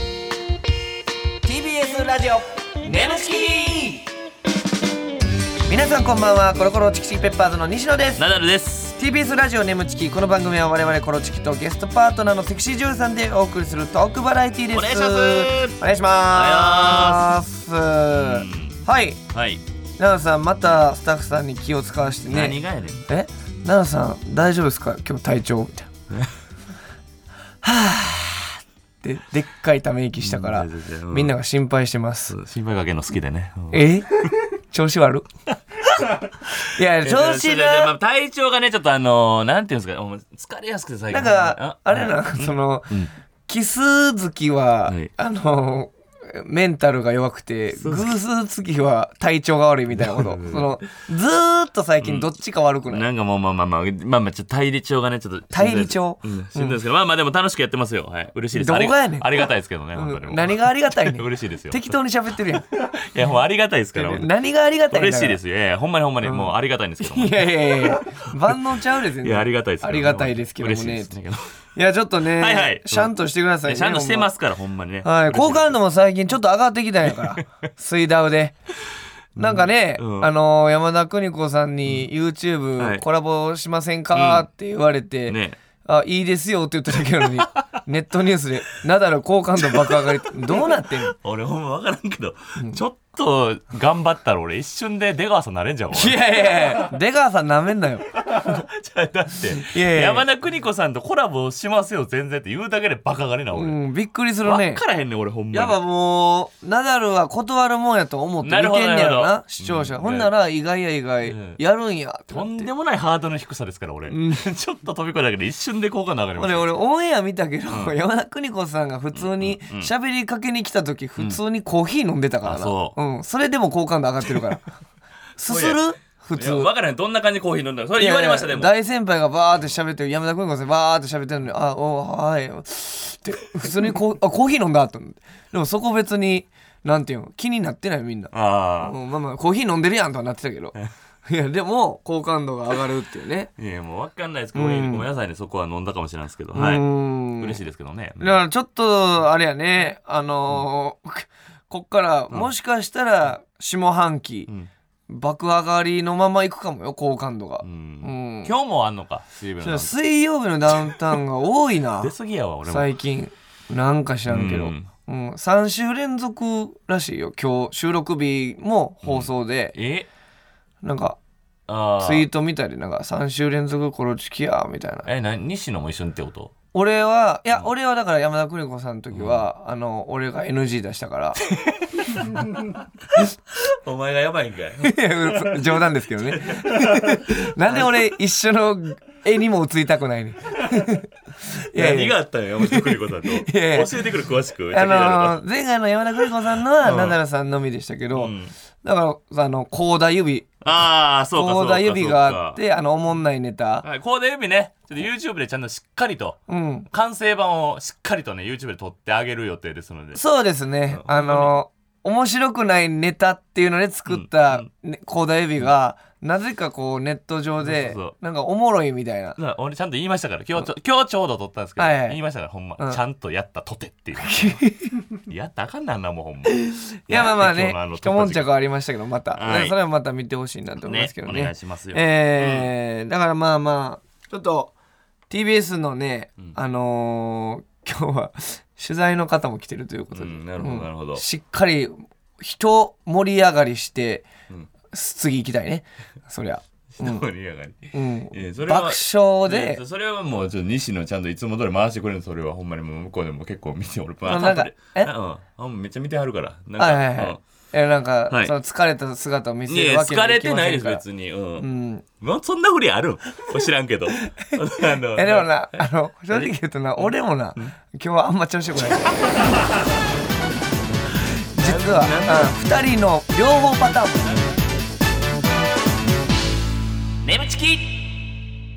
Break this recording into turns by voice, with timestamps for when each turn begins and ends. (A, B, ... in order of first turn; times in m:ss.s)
0:01.4-0:04.1 A
0:05.7-0:08.2 A
0:08.2-0:09.0 B
0:09.0-0:19.2 A
0:14.7-0:15.8 B
0:16.3-0:17.4 B
0:18.1-0:18.8 B
0:19.3-0:19.6 B
0:20.0-0:25.9 A
0:22.3-0:23.0 B
0:27.6-0:32.4 A
0:30.2-0:31.3 B
0:32.3-0:33.8 B
0:33.7-0:34.1 A
0:34.7-0:35.3 A
0:36.0-0:43.1 B
0:36.7-0:37.9 A
0:41.1-0:43.0 A
0:43.5-0:53.0 A
0:47.8-0:48.1 B
0:49.9-0:50.8 B
0:52.0-0:52.3 B
0:52.9-1:01.9 B
0:55.5-0:56.8 A
0:58.5-1:02.7 A
1:02.7-1:04.3 B
1:03.9-1:05.4 A
1:04.9-1:08.6 B
1:06.2-1:11.1 A
1:09.2-1:11.4 B
1:11.8-1:14.3 A
1:12.2-1:13.1 B
1:13.6-1:15.8 B
1:15.0-1:18.6 A
1:17.1-1:17.4 B
1:19.4-1:20.3 B
1:19.4-1:31.2 A
1:22.8-1:23.0 B
1:24.1-1:24.4 B
1:25.3-1:25.6 B
1:29.7-1:36.2 B
1:35.9-1:38.1 A
1:38.2-1:43.8 B
1:39.6-1:40.2 A
1:43.5-1:44.8 A
1:44.4-1:45.8 B
1:45.5-1:52.7 A
1:48.4-1:50.3 B
1:51.2-1:51.6 B
1:52.3-1:56.7 B
1:54.1-1:54.4 A
1:56.4-2:04.7 A
1:57.7-1:58.0 B
1:59.1-1:59.9 B
2:02.4-2:03.0 B
2:05.4-2:06.7 A
2:05.5-2:05.8 B
2:06.3-2:08.7 B
2:08.0-2:20.7 A
2:18.3-2:19.0 B
2:21.2-2:23.5 A
2:23.6-2:28.4 B
2:24.5-2:25.0 A
2:26.5-2:27.6 A
2:28.2-2:34.5 A
2:35.1-2:38.5 A
2:37.6-2:39.9 B
2:39.6-2:42.1 A
2:42.0-2:42.9 B
2:42.6-2:49.7 A
2:44.3-2:44.9 B
2:49.0-2:50.1 B
2:50.8-2:51.2 A
2:51.7-2:52.3 B
2:52.0-2:55.0 A
2:55.0-2:56.5 B
2:56.7-3:01.4 A
2:59.1-2:59.4 B
3:02.1-3:02.7 B
3:03.6-3:08.0 B
3:04.8-3:14.0 A
3:11.7-3:15.4 B
3:14.7-3:20.6 A
3:16.8-3:17.2 B
3:18.1-3:18.5 B
3:20.6-3:22.6 B
3:21.3-3:23.8 A
3:23.8-3:26.4 B
3:26.5-3:26.9 A
3:26.9-3:30.2 B
3:30.2-3:39.4 A
3:30.9-3:31.5 B
3:34.1-3:34.7 B
3:37.6-3:38.2 B
3:39.4-3:44.7 B
3:41.8-3:42.2 A
3:44.2-3:45.0 A
3:45.2-3:48.5 B
3:46.5-3:54.7 A
3:49.3-3:49.7 B
3:50.8-3:52.7 B
3:55.3-4:04.3 A
4:00.1-4:01.2 B
4:04.9-4:07.2 A
4:07.0-4:17.4 B
4:07.9-4:09.8 A
4:14.2-4:15.1 A
4:16.8-4:21.0 A
4:18.3-4:18.6 B
4:19.7-4:21.7 B
4:21.6-4:22.0 A
4:22.2-4:27.7 B
4:25.1-4:29.3 A
4:29.1-4:29.6 B
4:31.5-4:32.6 B
4:31.6-4:34.5 A
4:37.2-4:38.1 B